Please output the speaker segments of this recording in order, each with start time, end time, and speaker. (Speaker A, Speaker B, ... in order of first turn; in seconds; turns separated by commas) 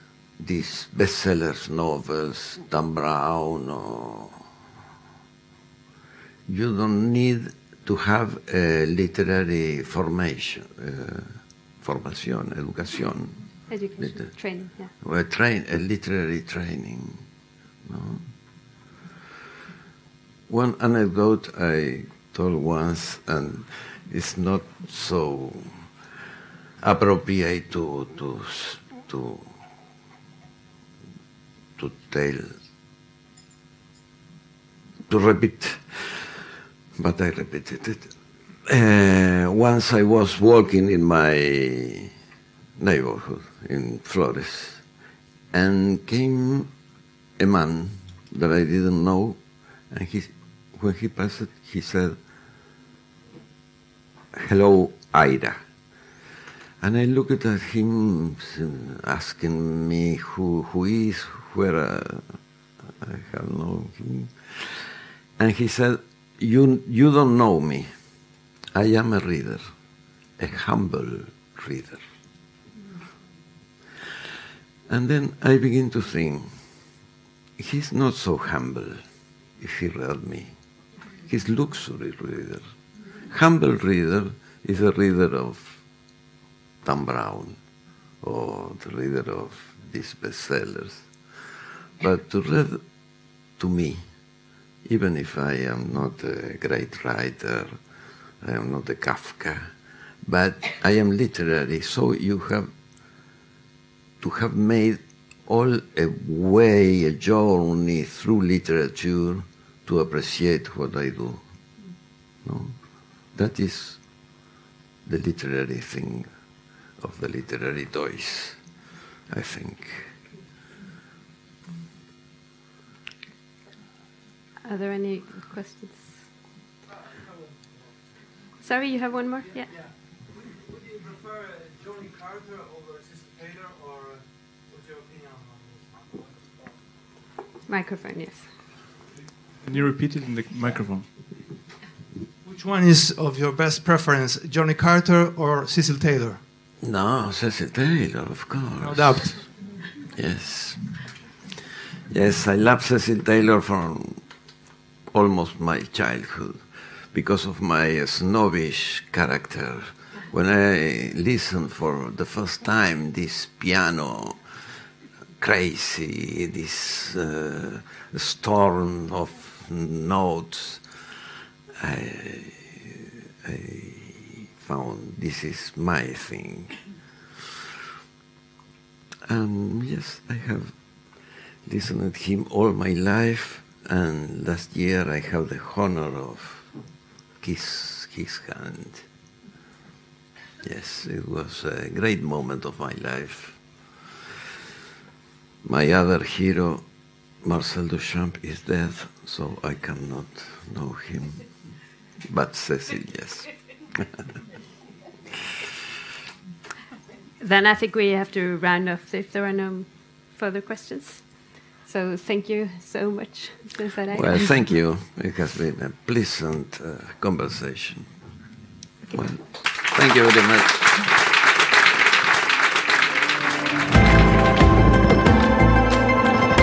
Speaker A: 0.4-4.4, Speaker A: 6.5-13.4, Speaker B: 13.7-14.9, Speaker A: 14.0-14.2, Speaker A: 15.0-17.2, Speaker A: 17.8-18.3, Speaker A: 20.5-25.8, Speaker A: 26.8-29.5, Speaker A: 31.8-32.5, Speaker A: 35.1-38.1, Speaker A: 38.6-42.1, Speaker A: 42.8-44.8, Speaker A: 45.5-46.7, Speaker A: 47.4-49.4, Speaker A: 49.9-52.2, Speaker A: 54.3-55.6, Speaker A: 56.8-62.4, Speaker A: 63.0-67.9, Speaker A: 68.7-69.7, Speaker A: 70.4-72.0, Speaker A: 74.9-76.5, Speaker A: 77.6-79.0, Speaker A: 79.6-80.5, Speaker A: 81.2-82.7, Speaker A: 83.3-85.8, Speaker A: 86.8-87.6, Speaker A: 88.2-91.1, Speaker A: 92.0-92.8, Speaker A: 93.6-94.0, Speaker A: 94.8-97.8, Speaker A: 98.4-99.7, Speaker A: 100.2-102.7, Speaker A: 104.2-111.4, Speaker A: 112.4-112.8, Speaker A: 113.3-114.0, Speaker A: 115.0-116.3, Speaker A: 117.0-118.6, Speaker A: 119.3-120.1, Speaker B: 124.7-126.1, Speaker B: 128.6-129.7, Speaker B: 137.7-138.5, Speaker C: 139.6-141.1, Speaker D: 142.4-146.4, Speaker A: 146.8-149.4, Speaker D: 148.9-149.4, Speaker C: 148.9-149.4, Speaker A: 150.1-150.8, Speaker A: 152.1-154.2, Speaker A: 155.1-164.4, Speaker A: 165.4-170.8, Speaker A: 171.8-176.8, Speaker A: 179.3-180.7, Speaker A: 181.6-186.7, Speaker A: 187.4-189.1, Speaker A: 190.6-193.6, Speaker A: 195.6-196.8, Speaker A: 197.4-201.5, Speaker A: 202.2-204.1, Speaker B: 207.4-211.3, Speaker B: 211.8-214.5, Speaker A: 214.1-218.1, Speaker A: 219.1-221.1